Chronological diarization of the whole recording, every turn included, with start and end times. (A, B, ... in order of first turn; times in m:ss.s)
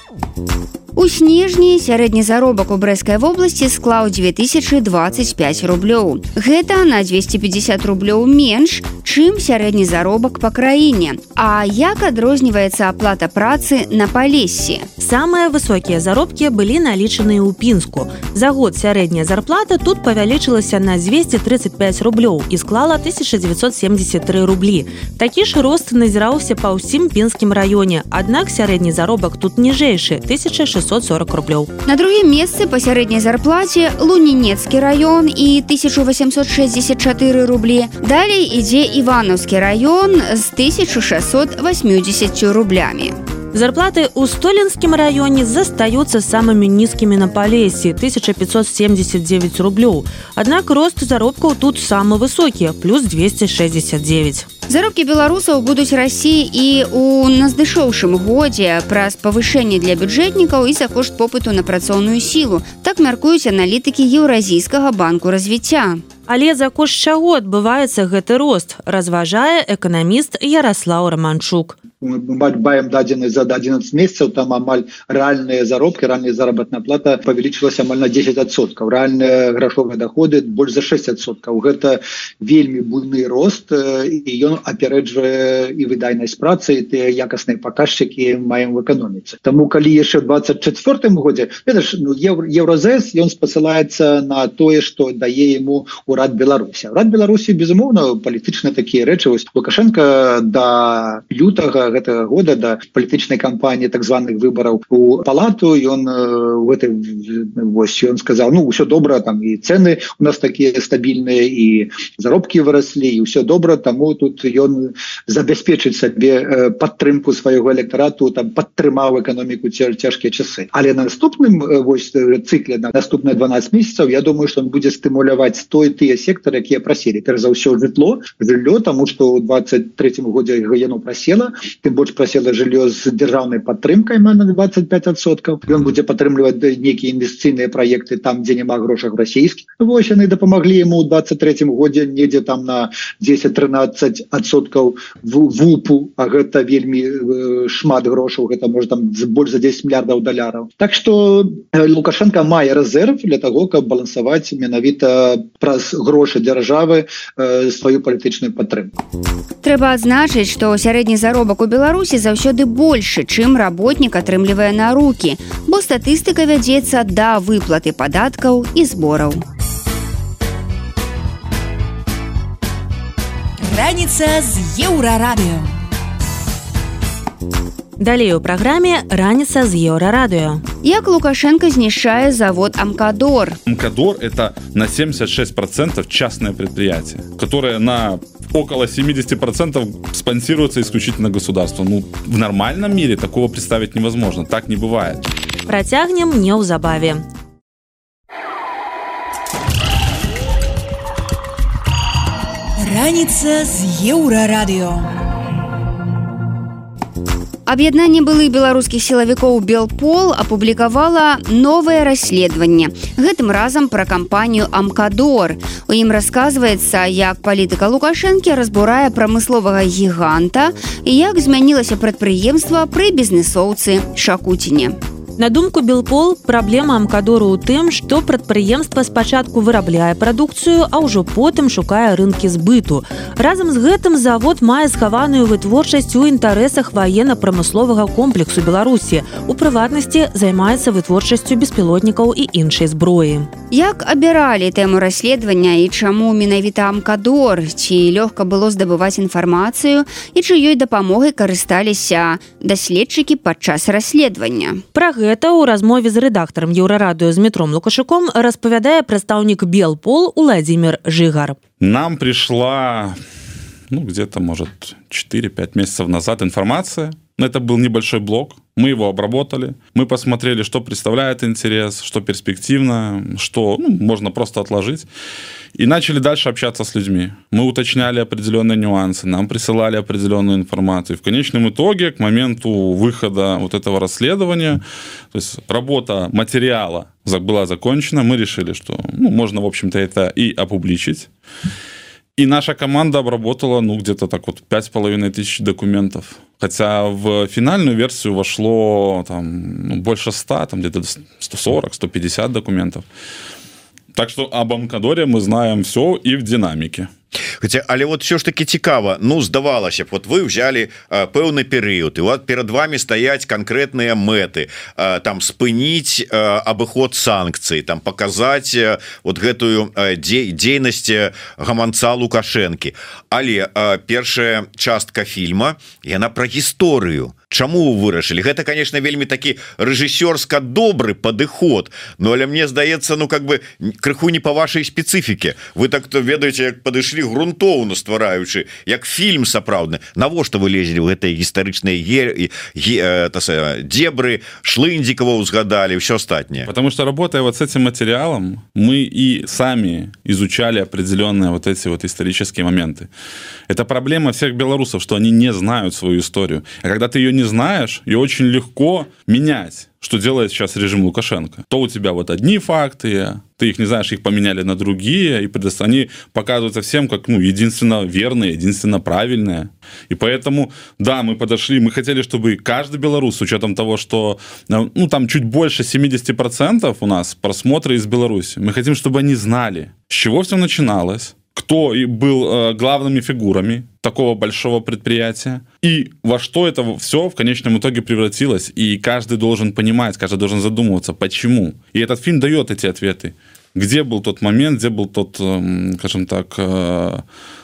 0:00.9-0:14.9 A
0:15.0-0:31.7 B
0:31.9-0:43.2 A
0:43.5-0:54.5 B
0:54.7-1:06.0 A
1:06.3-1:11.8 B
1:12.0-2:38.9 C
2:39.6-2:49.4 A
2:53.6-2:55.7 D
2:58.0-3:00.6 B
3:00.8-3:03.6 A
3:03.7-3:15.2 E
3:15.7-3:17.2 B
3:22.8-3:25.1 D
3:27.7-3:45.0 A
3:45.4-4:03.5 B
4:03.7-4:14.8 A
4:14.9-4:21.6 B
4:21.8-4:23.2 E
4:23.9-4:35.1 E
4:35.8-4:51.3 E
4:52.4-5:03.0 E
5:04.1-5:07.1 E
5:07.6-5:46.7 F
5:46.7-5:53.1 E
5:53.7-6:37.2 E